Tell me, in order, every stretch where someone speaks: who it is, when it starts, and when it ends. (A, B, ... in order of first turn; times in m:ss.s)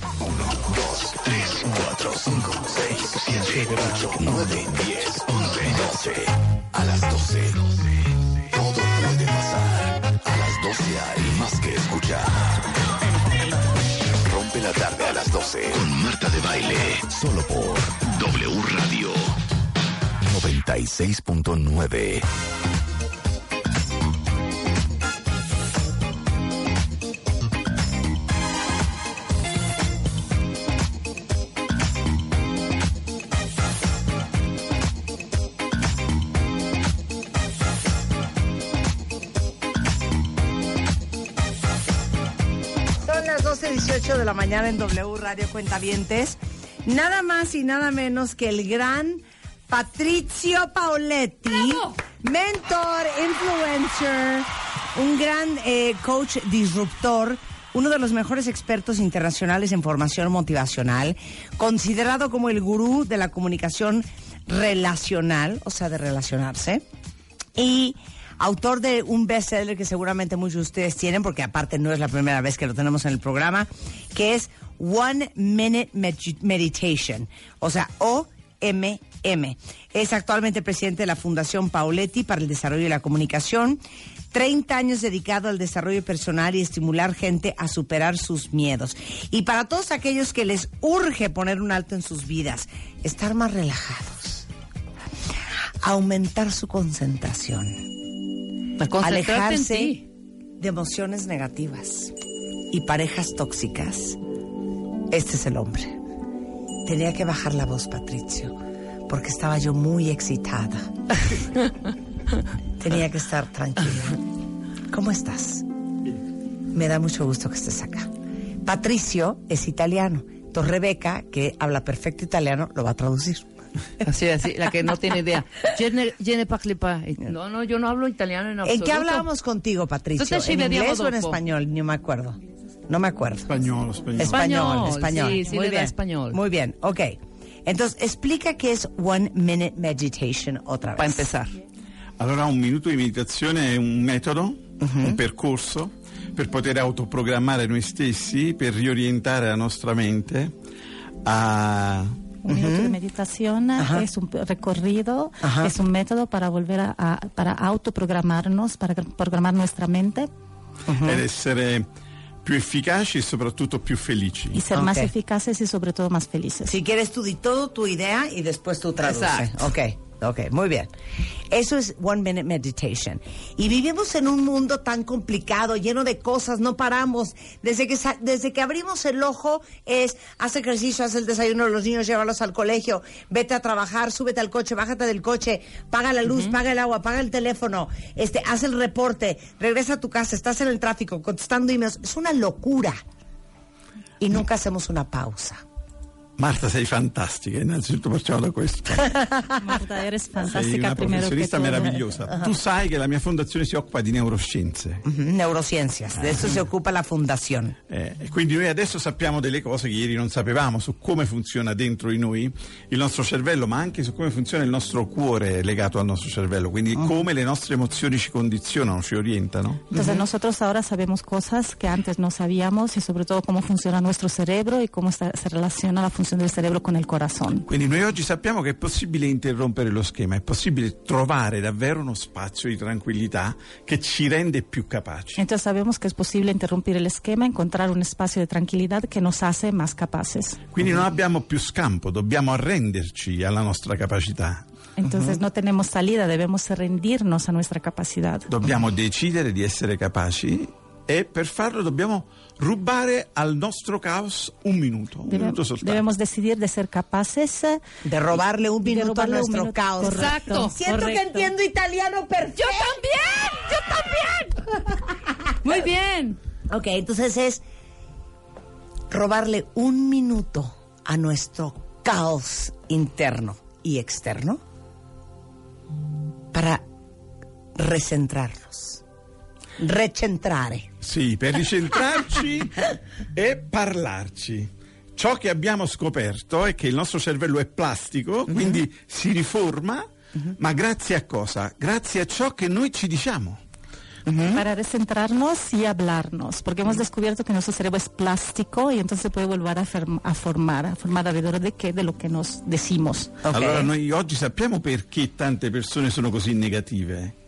0:00.2-0:08.0 A
0:08.5-0:12.6 A
0:14.2-0:19.4 A
0:20.2-0:22.2 A
0:43.0-1:06.8 B
1:07.6-1:23.8 B
1:24.3-1:34.4 B
1:35.8-1:37.9 B
1:38.8-1:40.0 C
1:39.0-1:40.0 B
1:40.6-1:42.1 B
1:42.7-1:44.2 B
1:45.1-1:46.0 B
1:46.8-1:51.3 B
1:52.8-1:54.2 B
1:54.9-1:55.7 B
1:56.7-1:58.1 B
1:58.6-2:03.5 B
2:04.0-2:09.3 C
2:08.6-2:13.6 B
2:10.2-2:11.4 C
2:13.4-2:14.7 D
2:14.2-2:21.2 B
2:14.2-2:16.4 C
2:21.0-2:21.5 C
2:22.2-2:30.5 D
2:24.8-2:25.2 B
2:31.2-2:32.1 D
2:32.4-2:40.3 E
2:32.5-2:32.9 B
2:33.8-2:34.0 B
2:35.4-2:35.7 B
2:40.9-2:41.2 B
2:41.0-2:41.9 D
2:42.4-2:44.6 D
2:44.5-2:46.8 E
2:44.7-2:45.1 B
2:46.6-2:50.9 B
2:49.0-2:49.5 C
2:51.5-3:13.0 B
3:14.2-3:15.6 B
3:16.4-3:19.2 D
3:19.6-3:22.2 E
3:20.4-3:25.0 D
3:25.0-3:27.8 B
3:27.9-3:39.9 D
3:39.9-3:47.7 E
3:39.9-3:40.2 B
3:47.7-3:55.4 D
3:55.4-4:00.6 E
4:00.7-4:04.6 D
4:05.0-4:08.5 E
4:05.0-4:05.4 B
4:08.5-4:16.0 D
4:15.2-4:17.8 E
4:18.0-4:23.0 B
4:18.8-4:21.5 E
4:20.0-4:20.7 C
4:22.6-4:24.6 C
4:25.6-4:26.4 C
4:26.7-4:27.6 B
4:29.1-4:34.6 B
4:36.5-4:36.8 B
4:37.7-4:39.0 B
4:39.8-4:40.9 B
4:41.0-4:53.6 D
4:48.5-4:48.8 B
4:54.2-4:54.6 B
4:54.5-5:03.4 E
5:03.4-5:03.9 B
5:03.5-5:07.3 D